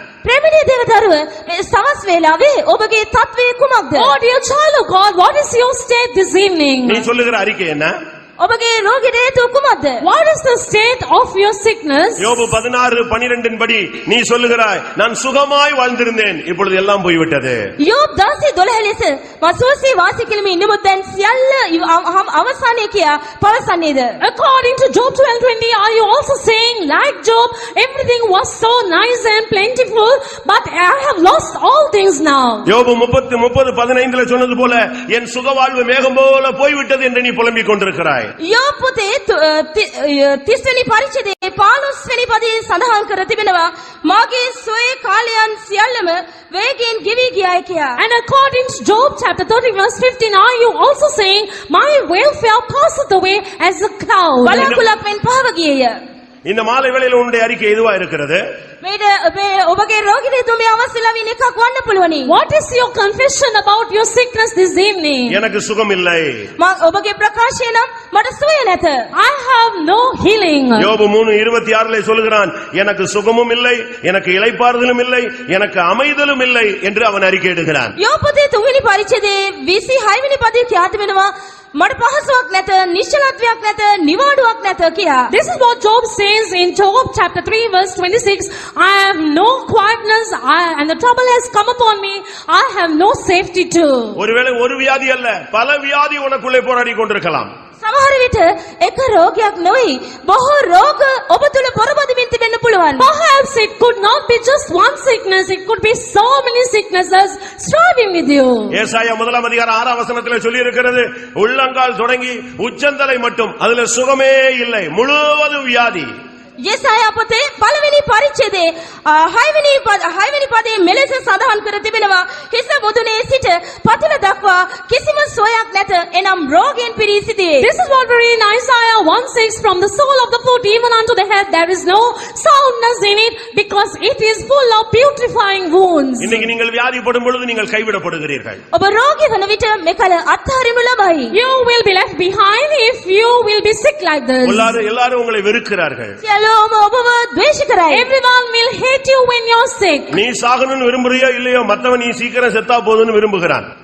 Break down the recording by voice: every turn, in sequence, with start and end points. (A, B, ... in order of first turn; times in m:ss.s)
0:00.2-0:04.1 A
0:04.0-0:07.1 B
0:06.8-0:07.9 C
0:08.4-0:10.0 A
0:10.0-0:12.4 B
0:12.2-0:17.6 C
0:17.8-0:24.2 A
0:24.2-0:32.7 B
0:32.6-0:38.3 C
0:38.4-0:48.0 A
0:48.0-0:54.7 B
0:54.4-0:56.0 A
0:54.6-0:54.8 C
0:56.4-0:58.4 C
0:58.8-1:02.3 A
1:02.3-1:05.4 B
1:05.3-1:06.5 C
1:06.6-1:09.1 A
1:09.1-1:10.9 B
1:10.8-1:17.9 C
1:18.0-1:25.3 A
1:25.3-1:34.2 B
1:34.2-1:37.5 C
1:37.8-1:43.1 A
1:43.0-1:48.7 B
1:48.7-1:56.1 C
1:56.6-2:07.7 A
2:07.6-2:16.5 B
2:16.2-2:18.6 C
2:18.7-2:21.3 A
2:21.3-2:24.7 B
2:24.4-2:26.2 C
2:26.2-2:28.0 A
2:27.9-2:30.2 B
2:30.1-2:33.7 C